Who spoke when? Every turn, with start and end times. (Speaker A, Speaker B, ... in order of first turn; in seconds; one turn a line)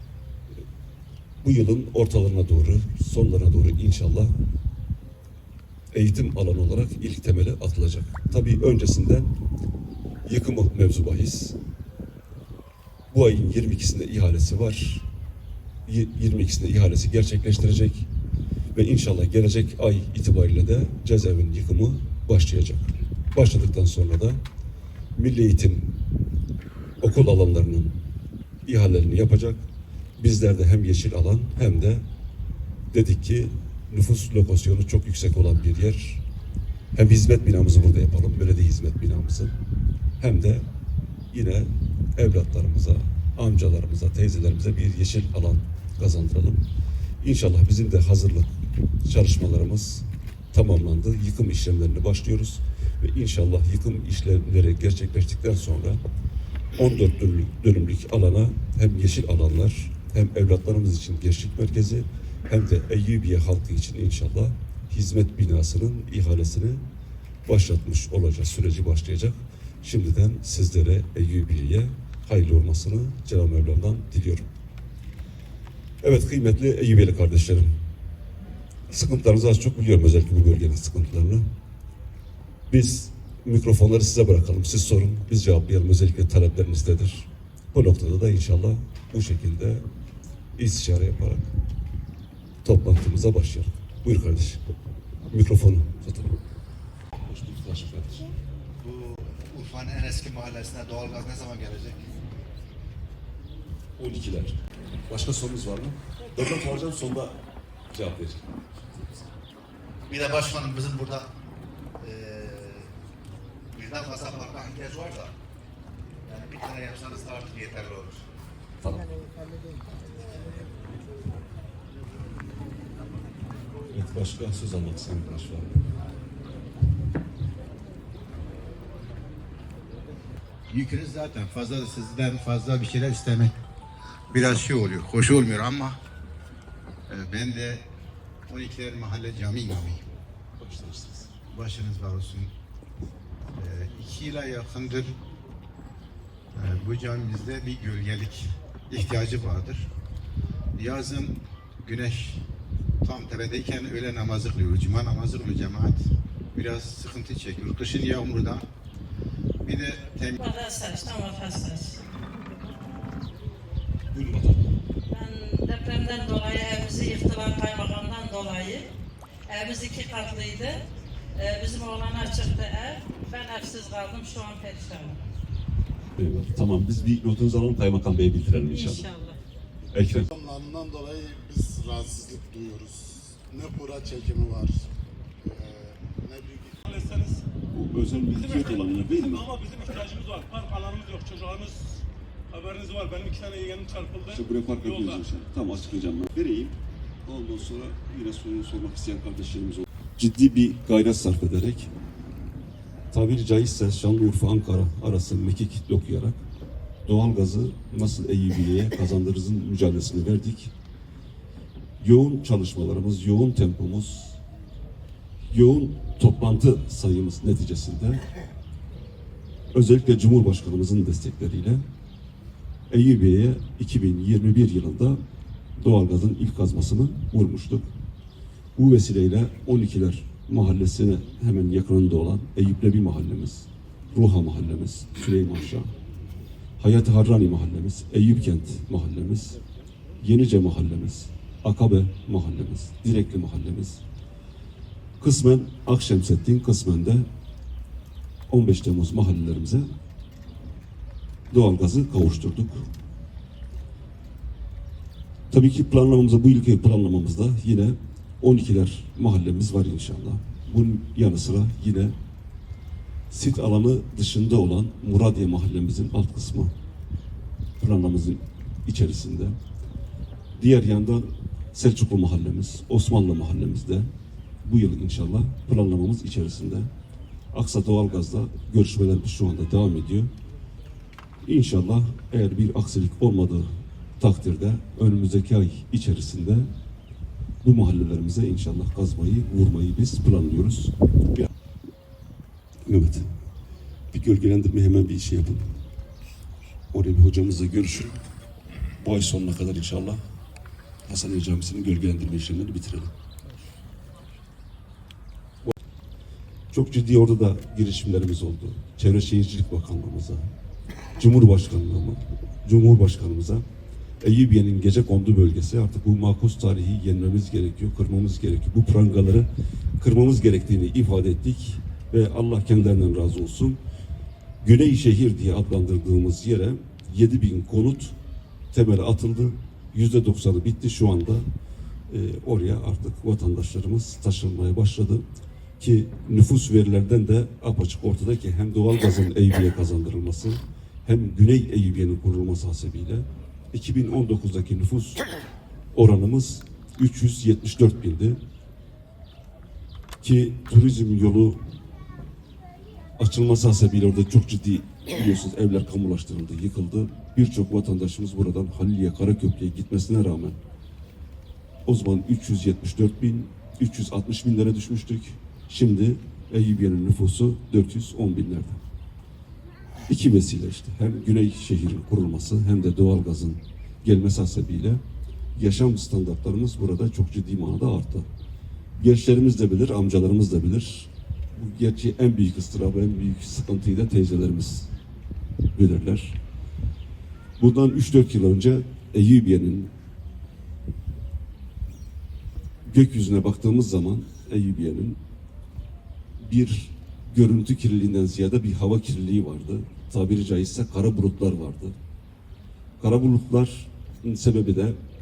Speaker A: 1.4-4.3
Speaker A: 5.9-9.3
Speaker A: 10.2-11.6
Speaker A: 13.1-15.1
Speaker A: 15.9-18.1
Speaker A: 18.7-24.4
Speaker A: 25.1-25.9
Speaker A: 27.0-27.9
Speaker A: 28.6-29.6
Speaker A: 30.2-32.0
Speaker A: 32.9-36.2
Speaker A: 36.9-39.5
Speaker A: 40.2-40.6
Speaker A: 41.3-46.6
Speaker A: 47.2-48.5
Speaker A: 49.0-56.0
Speaker A: 56.7-66.8
Speaker A: 67.5-74.5
Speaker A: 76.0-77.7
Speaker A: 78.9-81.4
Speaker A: 82.7-89.8
Speaker A: 90.5-91.5
Speaker A: 92.6-94.6
Speaker A: 95.3-96.4
Speaker A: 97.2-98.3
Speaker B: 98.8-102.0
Speaker A: 104.0-104.6
Speaker A: 105.1-107.4
Speaker A: 107.9-108.4
Speaker B: 110.1-111.3
Speaker B: 112.0-112.9
Speaker B: 113.7-115.3
Speaker B: 116.3-118.2
Speaker A: 123.9-125.7
Speaker B: 130.7-133.5
Speaker B: 134.3-136.0
Speaker B: 137.1-137.8
Speaker B: 138.5-140.0
Speaker A: 140.6-141.3
Speaker B: 141.5-142.5
Speaker B: 143.6-145.1
Speaker B: 146.5-149.9
Speaker B: 150.8-152.4
Speaker B: 153.0-158.7
Speaker B: 159.6-160.4
Speaker C: 160.4-162.0
Speaker A: 164.1-164.8
Speaker C: 165.1-168.9
Speaker C: 169.5-170.8
Speaker C: 171.3-175.2
Speaker A: 176.2-179.1
Speaker C: 178.7-179.4
Speaker A: 179.9-180.3
Speaker D: 180.3-184.9
Speaker D: 185.4-186.7
Speaker E: 186.8-187.4
Speaker A: 187.7-189.5
Speaker E: 188.3-195.2
Speaker A: 194.3-201.9
Speaker A: 203.1-206.4
Speaker A: 207.0-210.7
Speaker A: 212.0-214.4
Speaker A: 215.5-218.2
Speaker A: 219.7-221.8
Speaker A: 222.9-225.2
Speaker A: 225.8-227.9
Speaker A: 228.8-235.9
Speaker A: 236.8-239.6
Speaker A: 240.2-244.0
Speaker A: 245.2-247.2
Speaker A: 248.5-249.8
Speaker A: 251.5-252.8
Speaker A: 255.5-262.1
Speaker A: 263.3-266.7
Speaker A: 267.8-269.6
Speaker A: 270.6-274.1
Speaker A: 274.6-276.9
Speaker A: 277.5-280.3
Speaker A: 281.4-283.7
Speaker A: 284.2-286.7
Speaker A: 287.6-291.5
Speaker A: 292.9-293.3
Speaker A: 294.1-295.8
Speaker A: 296.9-298.1
Speaker A: 299.0-300.2
Speaker A: 301.1-303.1
Speaker A: 306.7-310.4
Speaker A: 311.2-313.6
Speaker A: 314.2-319.5
Speaker A: 320.0-323.8
Speaker A: 324.6-328.1
Speaker A: 328.7-331.4
Speaker A: 332.1-335.2
Speaker A: 335.8-345.2
Speaker A: 345.9-348.4
Speaker A: 350.2-351.6
Speaker A: 353.2-360.6
Speaker A: 361.9-368.8
Speaker A: 370.1-375.0
Speaker A: 375.6-378.2
Speaker A: 379.0-384.9
Speaker A: 385.7-386.4
Speaker A: 387.6-389.9
Speaker A: 392.9-395.2
Speaker A: 396.4-401.9
Speaker A: 403.0-405.0